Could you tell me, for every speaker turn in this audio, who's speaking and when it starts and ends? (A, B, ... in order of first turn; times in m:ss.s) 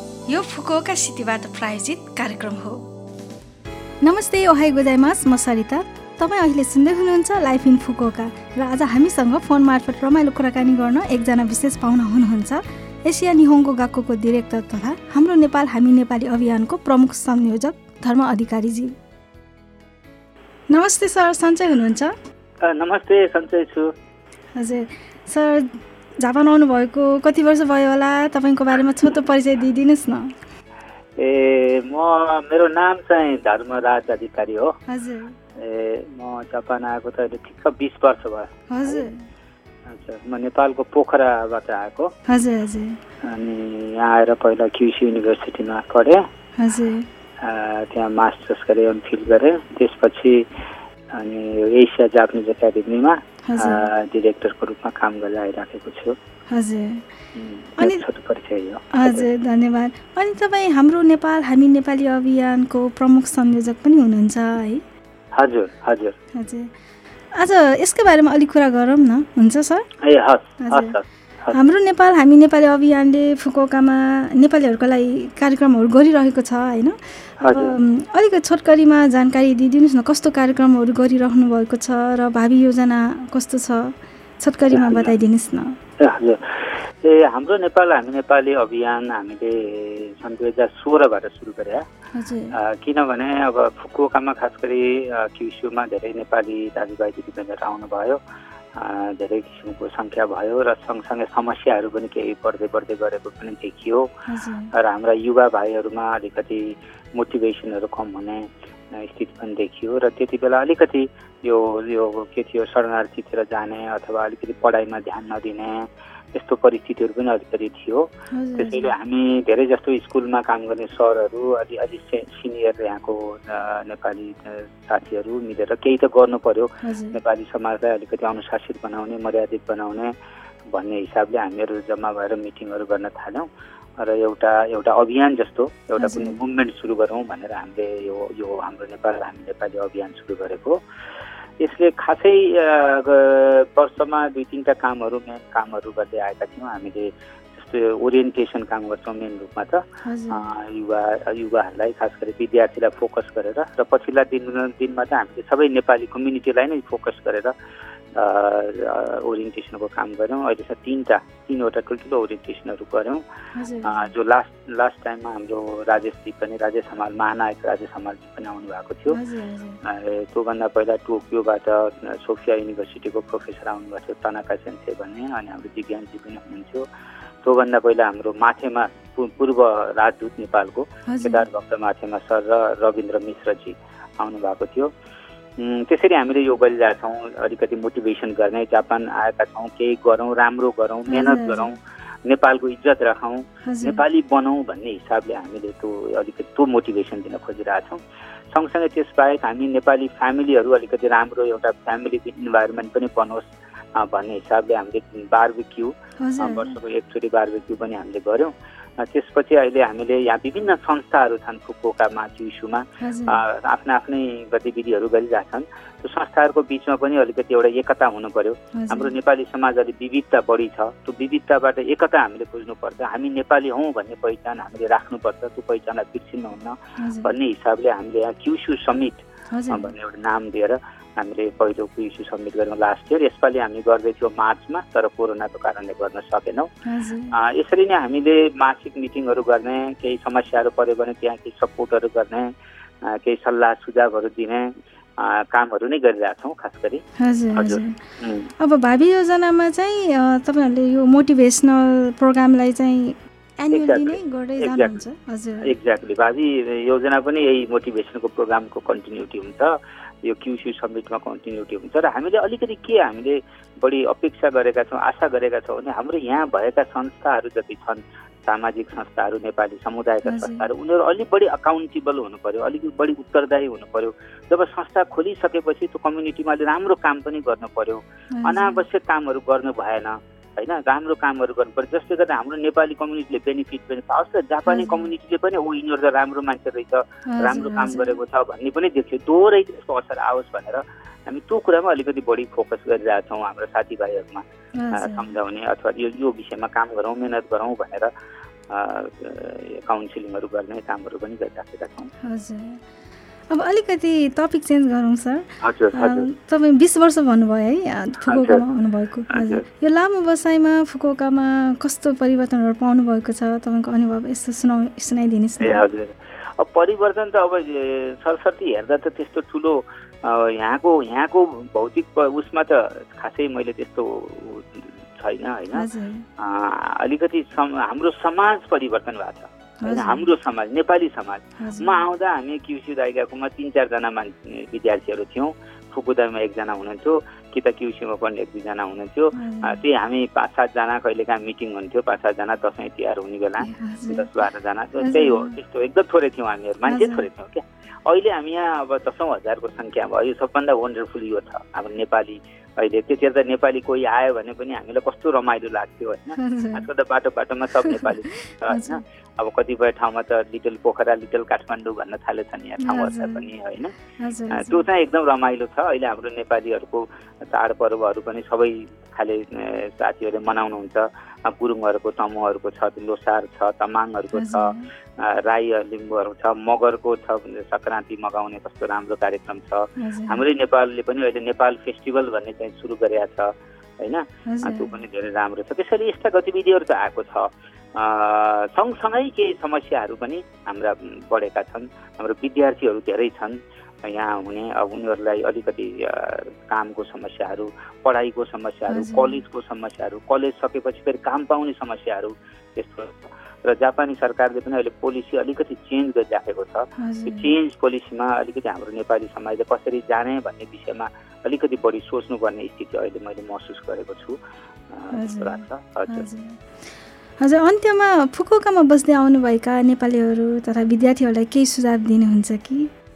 0:00.3-0:02.9 A
0:04.0-0:18.9 A
0:20.7-0:22.1 A
0:22.6-0:23.9 B
0:24.6-0:30.3 A
0:31.2-0:34.8 B
0:34.9-0:35.4 A
0:35.6-0:39.1 B
0:38.7-0:39.2 A
0:39.9-0:42.1 B
0:42.3-0:43.0 A
0:43.2-0:46.2 B
0:46.6-0:47.1 A
0:47.4-0:50.4 B
0:51.1-0:56.2 B
0:53.5-0:53.9 A
0:56.5-0:57.1 A
0:57.4-0:59.3 B
0:57.8-0:58.1 A
0:58.9-1:04.8 A
1:05.4-1:06.2 B
1:06.3-1:06.7 A
1:07.3-1:09.9 A
1:10.0-1:11.6 B
1:10.6-1:11.0 A
1:11.5-1:25.8 A
1:17.4-1:17.8 B
1:24.7-1:25.1 B
1:26.0-1:31.8 B
1:32.1-1:32.6 A
1:32.5-1:38.2 B
1:38.8-1:44.1 B
1:44.3-1:44.7 A
1:44.8-2:10.1 B
1:58.3-1:59.0 A
2:06.8-2:07.2 A
2:10.7-2:13.5 B
2:14.0-2:20.8 B
2:16.0-2:16.4 A
2:21.6-2:37.6 B
2:30.0-2:30.5 A
2:38.2-2:43.2 B
2:43.6-2:44.1 A
2:43.8-2:49.2 B
2:49.1-2:49.8 A
2:49.8-2:56.9 B
2:57.4-3:04.9 B
3:01.1-3:01.4 A
3:05.6-3:18.0 B
3:11.1-3:11.7 A
3:13.6-3:14.1 A
3:18.5-3:56.7 B
3:26.2-3:26.8 A
3:33.0-3:33.4 A
3:38.7-3:39.2 A
3:47.0-3:47.4 A
3:49.5-3:49.9 A
3:56.8-3:57.4 A
3:57.3-4:02.5 B
4:03.0-4:08.5 B
4:07.2-4:08.0 A
4:08.6-4:15.8 A
4:13.7-4:15.0 B
4:15.6-4:19.7 B
4:20.2-4:58.1 B
4:30.2-4:30.7 A
4:38.4-4:38.9 A
4:44.7-4:45.1 A
4:47.3-4:48.2 A
4:54.8-4:55.4 A
4:58.7-5:02.1 B
5:02.2-5:02.8 A
5:03.5-5:15.9 A
5:05.6-5:06.3 B
5:08.2-5:08.6 B
5:09.3-5:09.6 B
5:15.6-5:25.9 B
5:25.7-5:26.2 A
5:26.4-6:04.0 B
5:29.8-5:30.4 A
5:31.6-5:32.1 A
5:39.3-5:39.8 A
5:43.6-5:44.4 A
5:45.0-5:45.6 A
5:46.8-5:47.3 A
5:56.3-5:56.9 A
5:57.7-5:59.0 A
6:02.8-6:03.5 A
6:04.1-6:04.9 A
6:04.5-6:54.4 B
6:14.3-6:14.9 A
6:20.0-6:20.5 A
6:24.5-6:25.0 A
6:38.9-6:39.4 A
6:47.0-6:47.6 A
6:54.9-6:56.3 B
6:55.1-6:56.6 A
6:57.4-7:02.9 A